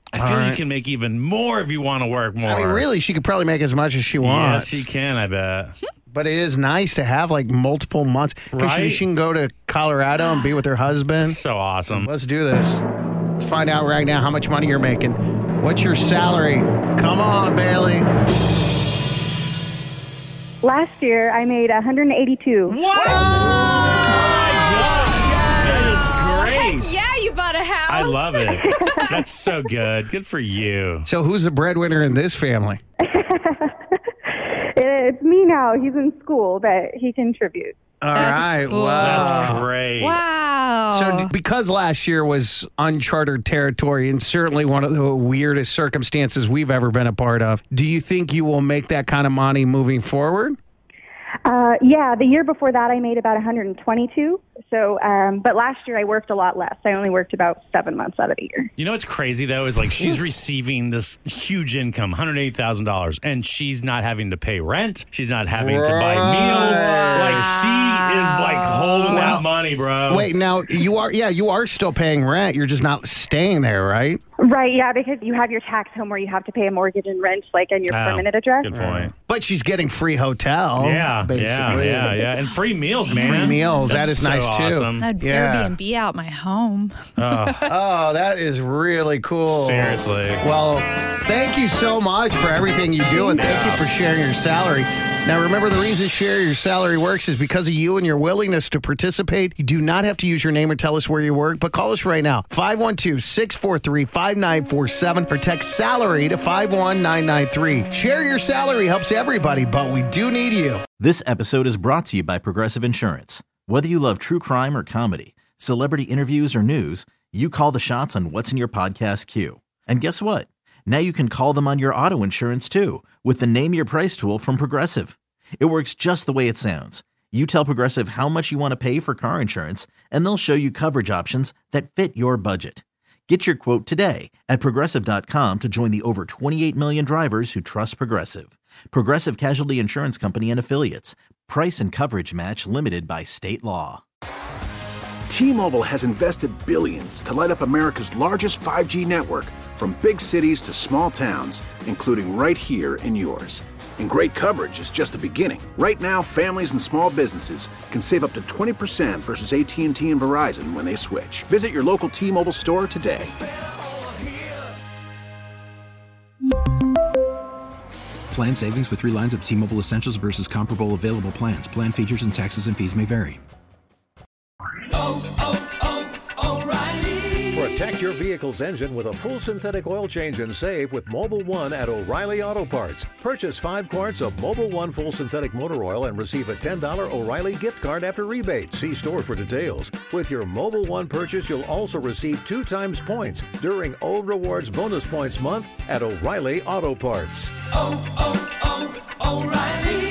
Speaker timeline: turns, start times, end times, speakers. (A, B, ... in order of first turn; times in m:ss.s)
0:00.1-0:02.9 A
0:00.2-0:00.6 B
0:02.4-0:04.9 B
0:04.2-0:05.7 A
0:06.1-0:11.4 B
0:08.5-0:09.0 A
0:11.2-0:12.1 A
0:12.0-0:12.8 B
0:13.4-0:18.1 B
0:20.6-0:23.6 C
0:22.7-0:26.9 A
0:22.9-0:23.3 B
0:24.6-0:29.2 D
0:27.9-0:31.1 A
0:28.5-0:29.2 C
0:31.0-0:32.8 B
0:33.0-0:37.8 C
0:38.0-0:39.7 B
0:38.1-0:41.3 D
0:38.7-0:40.2 A
0:40.9-0:50.6 B
0:51.4-0:58.7 C
0:58.8-1:10.3 A
1:05.6-1:07.7 B
1:09.1-1:09.5 B
1:10.1-1:14.2 B
1:14.4-1:18.7 C
1:17.9-1:19.1 A
1:18.7-1:22.3 B
1:20.8-1:25.0 A
1:23.1-1:25.8 B
1:23.1-1:23.8 D
1:25.0-1:27.7 D
1:27.2-1:27.7 A
1:27.6-1:50.8 B
1:29.5-1:30.4 A
1:33.2-1:33.8 A
1:51.0-2:24.0 E
2:25.3-2:43.3 F
2:48.3-2:53.4 G
2:57.5-3:17.5 H